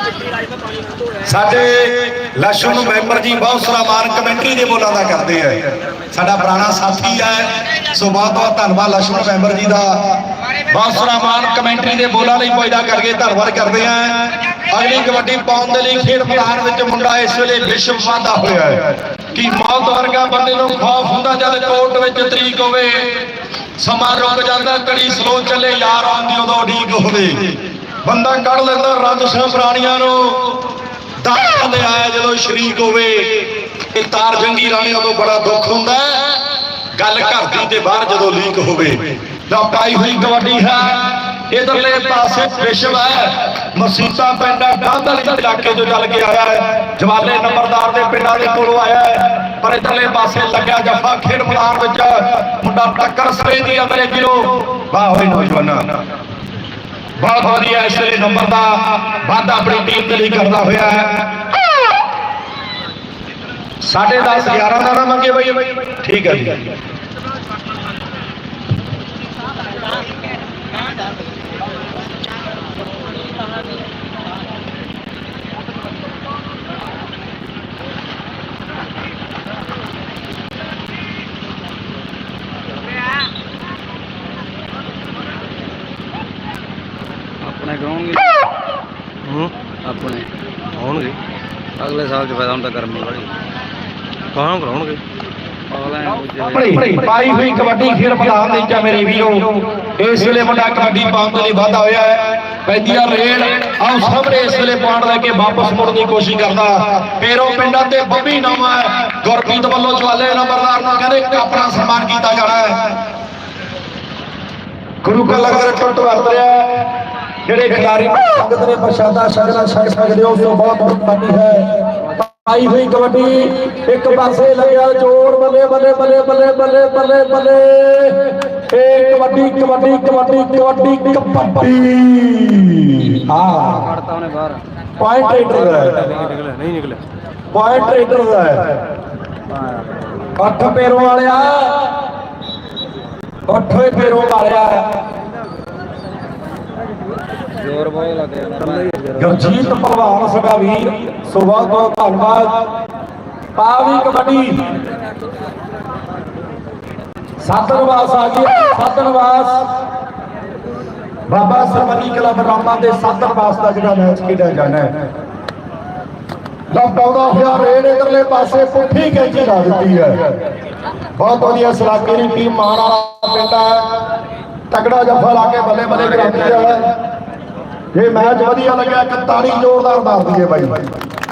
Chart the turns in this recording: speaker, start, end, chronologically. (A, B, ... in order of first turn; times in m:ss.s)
0:01.2-0:36.4 A
0:37.0-0:56.0 A
0:57.2-1:01.5 A
1:03.8-1:06.7 A
1:27.4-1:28.4 B
1:29.2-1:29.5 C
1:29.8-1:30.3 B
1:30.8-1:31.2 C
1:31.8-1:33.3 B
1:34.3-1:35.0 C
1:35.7-1:37.0 B
1:36.5-1:53.0 A
1:55.0-1:56.9 A
1:57.5-2:13.9 A
2:13.5-2:14.6 B
2:15.0-2:16.1 A
2:15.7-2:17.0 C
2:17.5-2:18.8 A
2:19.5-2:20.3 B
2:20.4-2:22.0 A
2:23.5-2:25.0 A
2:27.6-2:29.1 B
2:28.6-2:29.2 C
2:29.2-2:32.7 A
2:33.6-2:34.7 A
2:37.4-2:39.7 A
2:41.3-2:44.9 A
2:46.7-2:50.3 A
2:51.2-2:54.0 A
2:54.7-2:57.0 A
2:57.9-3:00.8 A